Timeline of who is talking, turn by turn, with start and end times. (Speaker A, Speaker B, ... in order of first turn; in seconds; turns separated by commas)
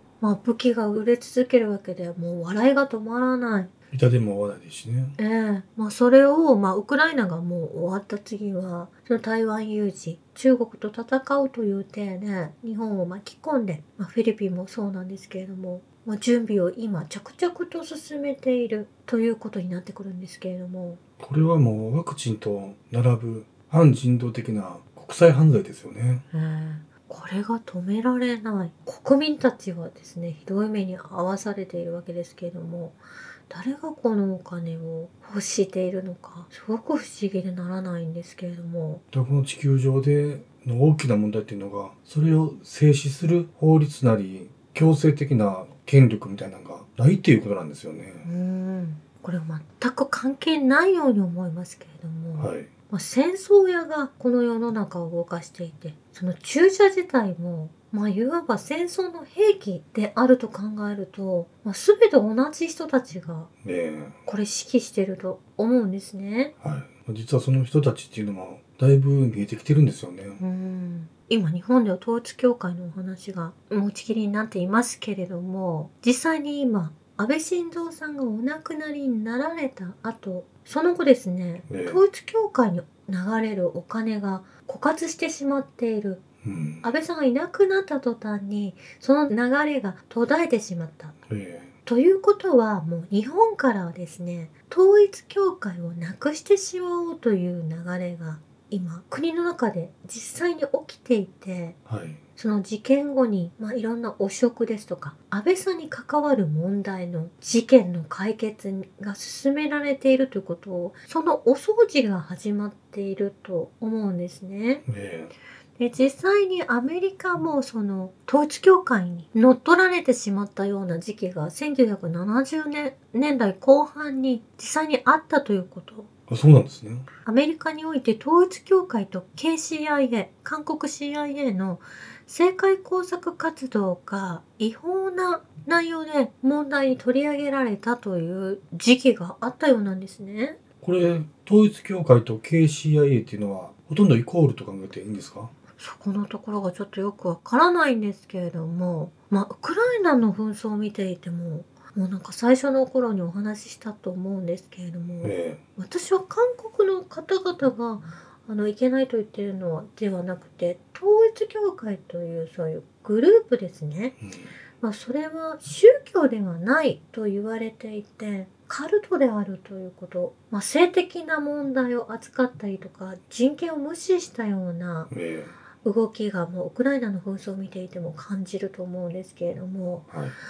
Speaker A: 0.2-3.7, Speaker B: 3.9-5.2, Speaker A: 5.2-21.0, Speaker B: 21.2-26.2, Speaker A: 26.3-39.0, Speaker B: 39.1-48.3, Speaker A: 48.2-63.5, Speaker B: 52.4-52.7, Speaker B: 63.6-64.2, Speaker A: 64.3-66.5, Speaker B: 66.6-70.4, Speaker A: 70.4-86.2, Speaker B: 81.7-82.0, Speaker B: 86.4-86.9, Speaker A: 86.8-91.2, Speaker B: 91.3-91.7, Speaker A: 91.9-101.8, Speaker B: 101.9-102.2, Speaker A: 102.4-114.8, Speaker B: 114.9-115.3, Speaker A: 115.8-126.1, Speaker B: 126.3-127.1, Speaker A: 127.2-140.6, Speaker B: 140.8-145.5, Speaker A: 145.8-164.2, Speaker B: 155.2-155.6, Speaker B: 164.2-164.5, Speaker A: 164.8-175.1, Speaker B: 175.1-175.5, Speaker A: 175.8-180.1, Speaker B: 180.1-180.4